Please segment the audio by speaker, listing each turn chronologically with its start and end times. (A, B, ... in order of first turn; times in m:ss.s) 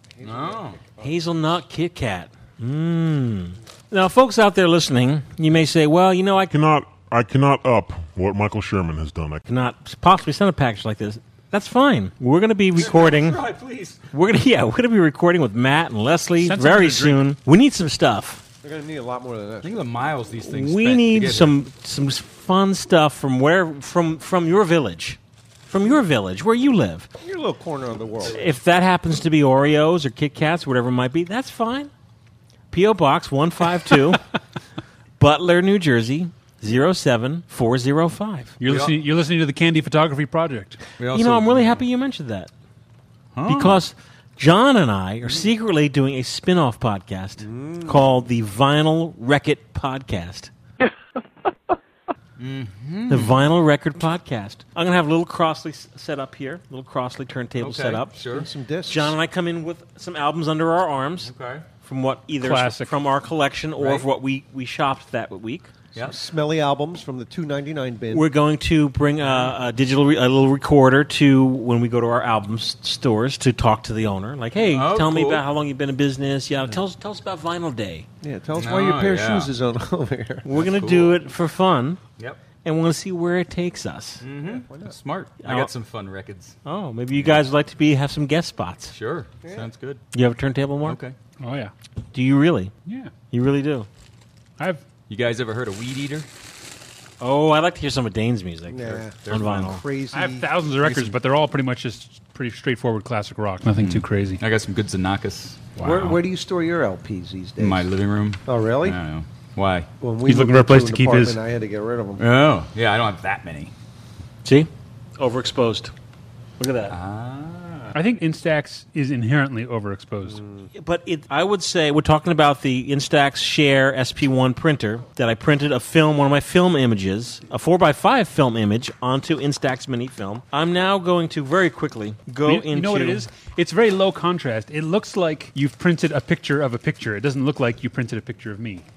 0:00.2-0:01.2 A
0:00.2-0:00.8 B
0:01.0-0:06.5 C
0:06.5-0:09.4 D
0:09.4-0:13.4 C
0:12.7-0:14.0 B
0:14.1-0:18.4 C
0:16.4-0:17.3 E
0:18.6-0:19.8 A
0:19.6-0:21.6 B
0:20.4-0:27.1 C
0:27.2-0:28.4 A
0:28.2-0:31.9 C
0:32.7-0:34.2 C
0:35.2-0:38.5 C
0:38.6-0:40.8 E
0:38.6-0:39.0 B
0:41.0-0:41.8 B
0:41.1-0:42.5 C
0:43.3-0:43.8 B
0:43.4-0:50.5 C
0:47.4-0:48.0 A
0:52.4-0:53.4 B
0:53.1-0:58.1 C
0:57.6-0:58.5 B
0:58.3-0:59.2 A
0:58.9-1:01.3 C
1:01.2-1:01.6 B
1:01.8-1:05.7 C
1:02.4-1:02.9 E
1:03.8-1:04.1 B
1:05.9-1:08.3 A
1:08.1-1:18.1 C
1:14.6-1:15.4 B
1:18.2-1:20.4 A
1:18.6-1:19.5 B
1:20.4-1:22.0 C
1:20.5-1:21.1 B
1:22.6-1:24.2 C
1:24.2-1:26.6 B
1:24.4-1:24.9 A
1:25.4-1:25.7 C
1:26.6-1:28.9 C
1:27.1-1:27.4 B
1:28.9-1:30.0 B
1:30.1-1:31.0 C
1:30.8-1:31.1 B
1:31.4-1:31.7 E
1:32.1-1:32.7 C
1:32.8-1:33.1 E
1:33.3-1:33.9 C
1:35.1-1:36.3 B
1:37.2-1:39.8 C
1:38.7-1:40.5 A
1:39.2-1:39.8 B
1:40.1-1:44.4 E
1:40.8-1:41.1 B
1:43.8-1:46.2 B
1:45.8-1:47.9 A
1:47.6-1:49.9 B
1:48.4-1:49.0 A
1:50.0-1:52.2 A
1:50.2-1:51.4 E
1:52.2-1:53.7 B
1:54.4-1:55.9 C
1:56.6-1:56.9 C
1:56.9-1:57.9 B
1:57.9-2:00.4 E
2:00.3-2:00.6 A
2:00.7-2:13.2 C
2:12.4-2:18.8 E